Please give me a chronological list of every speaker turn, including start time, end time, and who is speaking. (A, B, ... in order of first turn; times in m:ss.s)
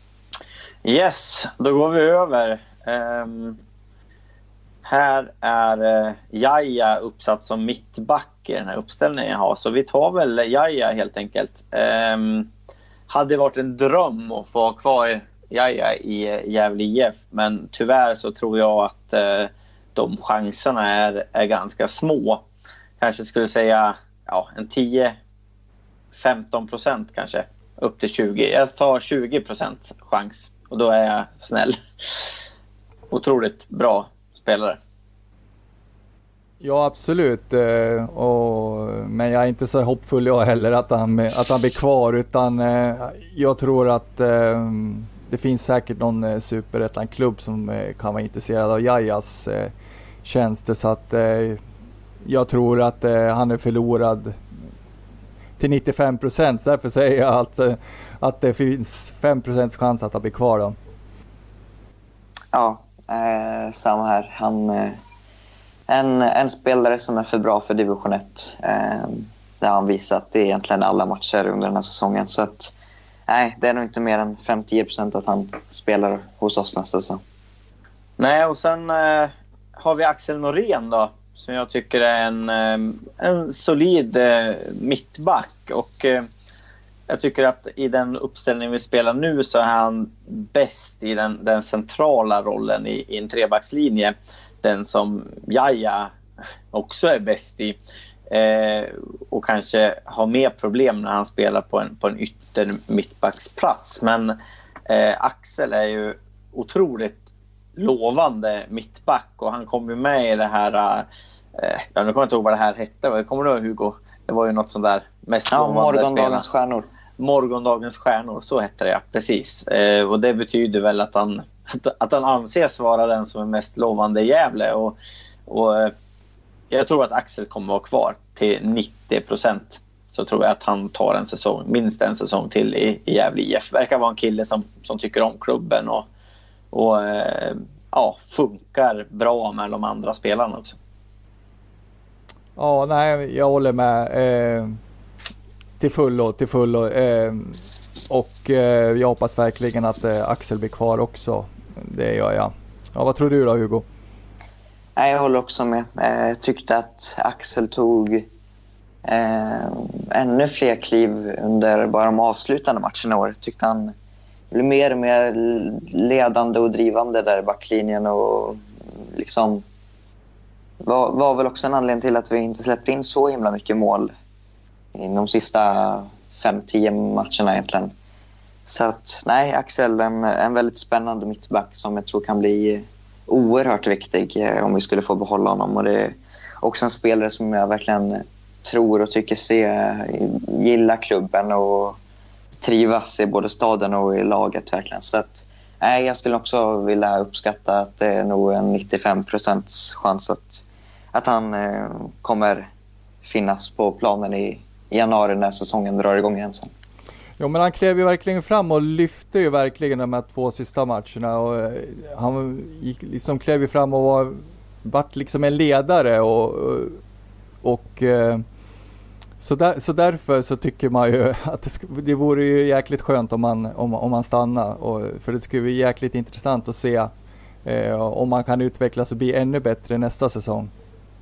0:00.8-0:03.6 A
0:04.8-0:12.5 A
0:13.1-0:22.4 A
0:23.0-0:25.2 A
0:26.1-0:31.8 A
0:33.1-0:34.8 A
0:36.6-0:49.7 B
0:50.2-0:51.6 B
0:52.2-0:54.4 B
0:55.6-1:00.8 B
1:02.5-1:05.0 C
1:05.9-1:12.7 C
1:13.3-1:17.2 C
1:18.2-1:26.3 A
1:27.1-1:36.1 A
1:36.7-1:37.8 A
1:38.3-1:44.3 A
1:44.9-1:47.2 A
1:47.8-1:56.4 A
1:55.5-1:56.9 C
1:57.2-2:05.9 A
2:06.7-2:16.1 A
2:16.7-2:20.8 A
2:22.6-2:24.8 B
2:25.8-2:33.8 B
2:35.0-2:38.3 C
2:39.0-2:43.9 C
2:44.5-2:49.6 C
2:50.8-2:54.1 C
2:54.9-2:57.9 C
2:58.7-3:12.0 C
3:12.6-3:22.7 C
3:23.2-3:26.7 C
3:27.4-3:37.0 B
3:37.6-3:38.4 B
3:39.4-3:47.1 B
3:47.6-3:50.7 B